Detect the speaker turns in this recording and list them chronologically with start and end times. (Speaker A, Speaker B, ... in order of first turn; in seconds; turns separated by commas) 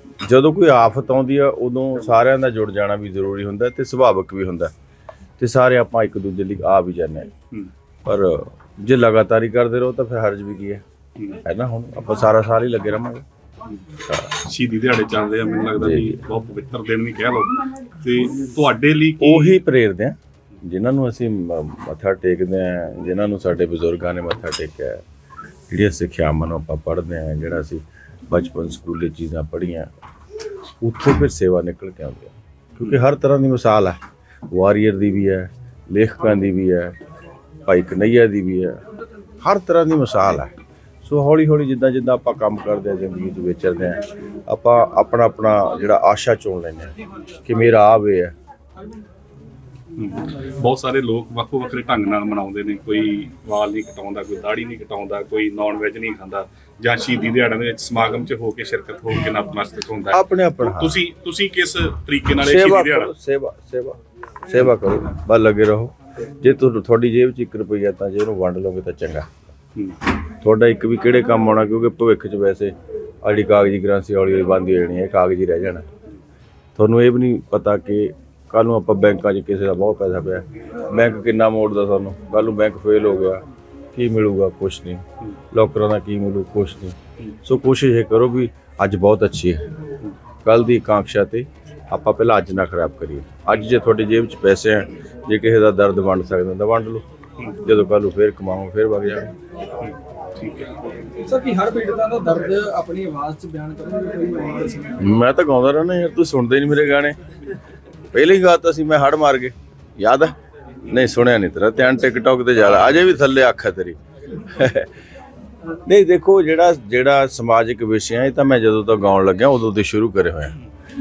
Speaker A: 0.2-4.7, Speaker A: 5.4-7.3, Speaker A: 8.0-10.8, Speaker A: 11.4-13.2, Speaker B: 13.7-19.6, Speaker A: 15.8-16.2, Speaker A: 19.2-25.0, Speaker A: 25.7-29.9, Speaker A: 30.8-34.0, Speaker A: 34.5-37.0, Speaker A: 37.6-38.8, Speaker A: 39.4-40.5, Speaker A: 41.0-48.3, Speaker B: 50.0-63.1, Speaker A: 60.1-61.0, Speaker A: 62.4-69.5, Speaker A: 70.2-75.9, Speaker A: 76.7-83.4, Speaker A: 83.9-89.6, Speaker A: 90.4-99.3, Speaker B: 99.8-100.8, Speaker C: 101.2-105.0, Speaker A: 105.0-107.2, Speaker A: 108.1-114.9, Speaker A: 115.8-120.6